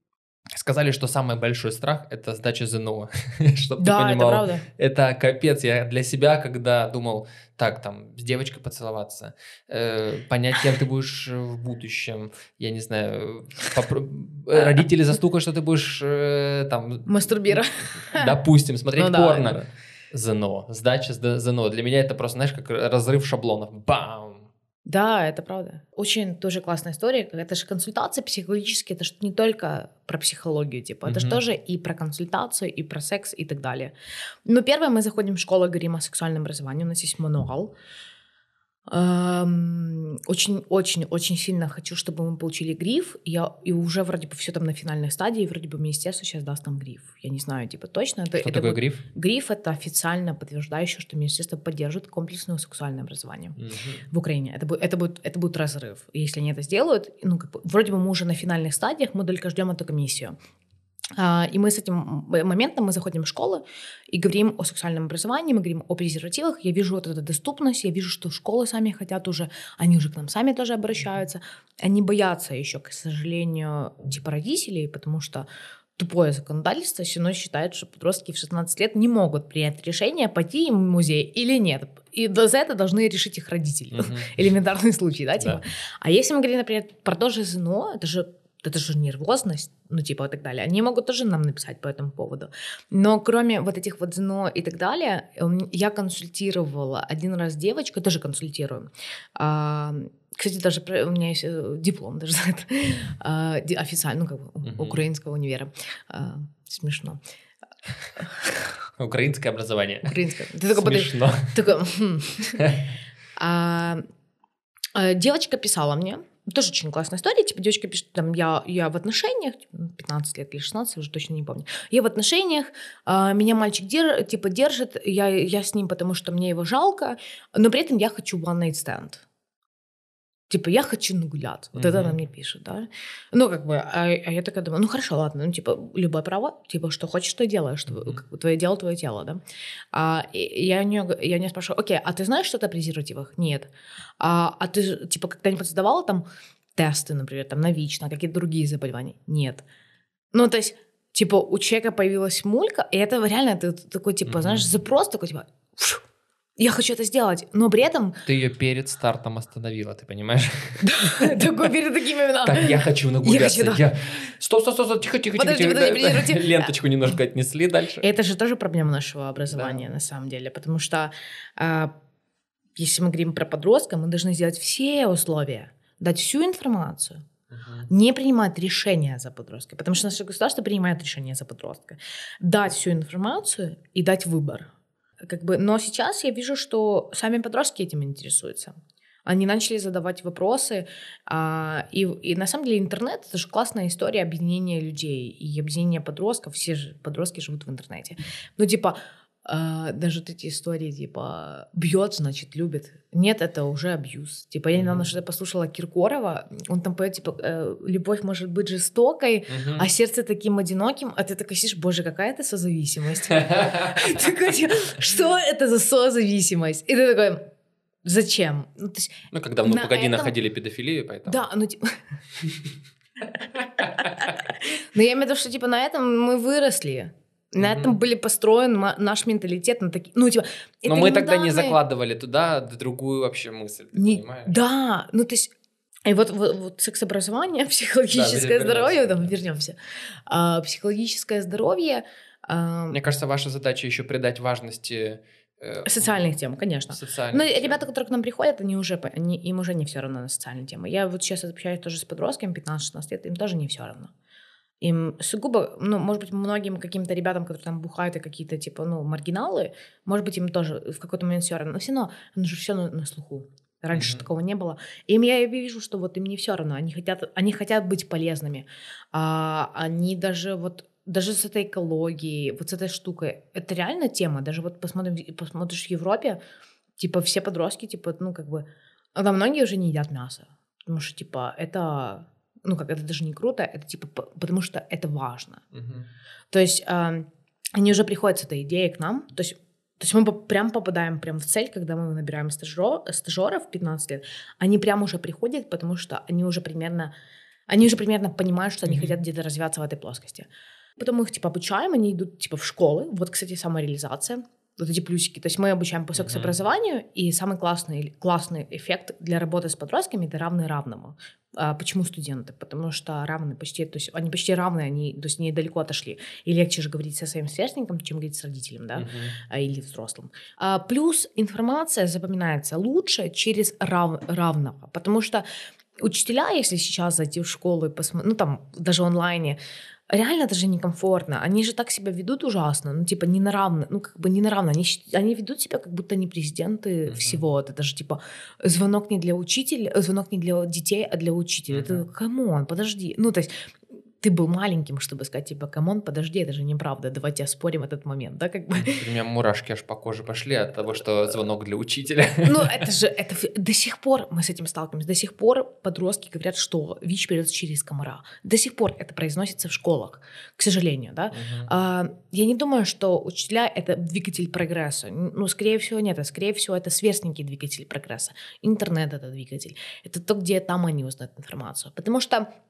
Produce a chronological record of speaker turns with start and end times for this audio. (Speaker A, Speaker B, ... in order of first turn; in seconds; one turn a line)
Speaker A: 0.5-24.5
Speaker B: 3.8-4.6
Speaker B: 17.1-18.3
Speaker B: 19.0-19.6
Speaker B: 24.9-33.9
Speaker A: 31.0-31.4
Speaker B: 34.4-37.7
Speaker B: 38.9-53.6
Speaker A: 48.4-49.0
Speaker A: 53.6-54.0
Speaker B: 54.1-60.4
Speaker B: 61.2-107.2
Speaker A: 83.9-84.4
Speaker A: 104.6-105.0
Speaker B: 108.2-108.5
Speaker A: 109.0-110.1
Speaker B: 110.0-112.6
Speaker A: 110.7-111.5
Speaker A: 112.6-112.9
Speaker B: 113.4-114.0
Speaker B: 114.9-129.2
Speaker B: 130.5-139.4
Speaker A: 131.7-132.1
Speaker A: 137.9-138.2
Speaker B: 139.9-143.7
Speaker B: 144.2-146.2
Speaker B: 146.8-149.6
Speaker B: 150.3-156.0
Speaker A: 154.2-154.7
Speaker B: 156.6-158.2
Speaker A: 158.2-161.5
Speaker B: 160.8-163.8
Speaker A: 162.4-168.1
Speaker B: 165.3-166.7
Speaker B: 168.0-171.9
Speaker A: 169.5-169.8
Speaker B: 172.8-177.2
Speaker A: 177.5-177.9
Speaker B: 177.9-184.7
Speaker B: 185.2-217.5
Speaker A: 204.7-205.1
Speaker A: 209.5-209.9
Speaker A: 213.3-214.3
Speaker B: 218.0-220.3
Speaker A: 219.3-221.4
Speaker B: 221.3-222.0
Speaker A: 223.8-224.1
Speaker B: 223.8-231.8
Speaker A: 227.6-228.0
Speaker A: 230.8-234.5
Speaker B: 233.9-235.5
Speaker B: 236.1-239.8
Speaker A: 238.1-239.3
Speaker B: 240.3-243.0
Speaker A: 242.9-246.2
Speaker B: 245.8-254.1
Speaker A: 246.9-247.8
Speaker B: 254.8-276.4
Speaker A: 263.9-264.2
Speaker B: 277.0-285.6
Speaker A: 285.7-286.1
Speaker B: 286.5-297.1
Speaker B: 297.7-300.5
Speaker A: 298.9-299.1
Speaker B: 301.0-325.4
Speaker A: 306.2-306.5
Speaker A: 318.9-319.4
Speaker B: 326.0-329.6
Speaker B: 330.1-343.6
Speaker A: 337.1-337.4
Speaker A: 341.7-342.0
Speaker B: 344.2-349.0
Speaker A: 348.8-352.9
Speaker B: 352.4-372.5
Speaker A: 361.3-361.7